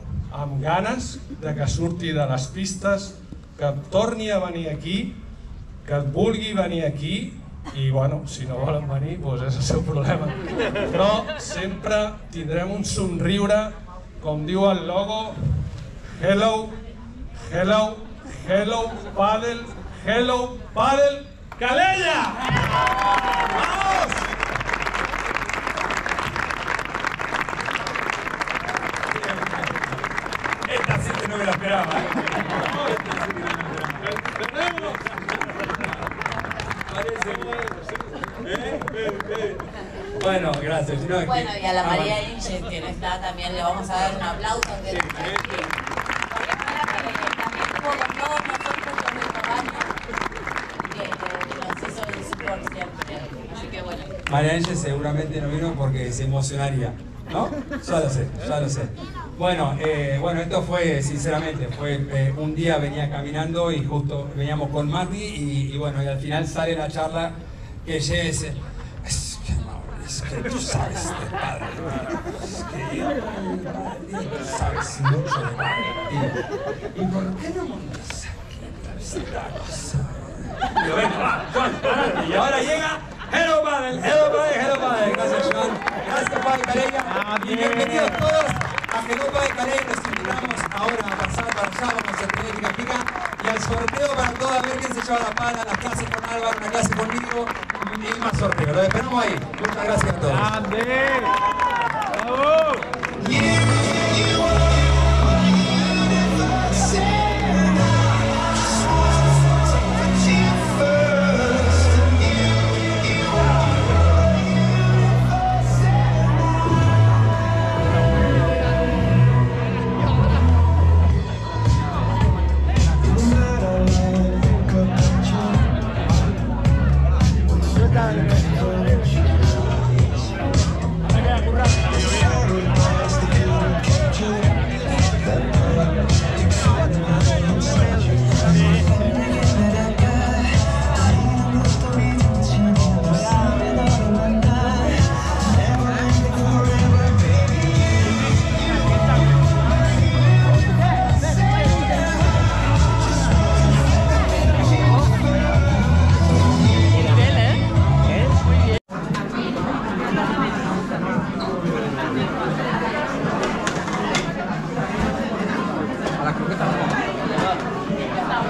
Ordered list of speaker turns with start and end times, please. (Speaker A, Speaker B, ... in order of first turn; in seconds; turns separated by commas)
Speaker A: 0.3-5.1, Speaker A: 5.8-15.4, Speaker A: 16.2-16.8, Speaker A: 17.4-22.9, Speaker A: 23.5-24.2, Speaker B: 29.1-29.9, Speaker B: 30.6-34.1, Speaker A: 34.1-35.0, Speaker B: 36.9-37.6, Speaker A: 37.5-38.0, Speaker B: 38.4-39.6, Speaker B: 40.2-42.1, Speaker C: 41.2-45.7, Speaker B: 44.9-45.4, Speaker C: 46.4-50.0, Speaker C: 50.9-54.2, Speaker B: 54.3-76.4, Speaker B: 76.9-100.5, Speaker D: 87.0-88.2, Speaker D: 100.3-101.4, Speaker D: 102.1-102.9, Speaker D: 128.0-128.2, Speaker D: 166.2-167.0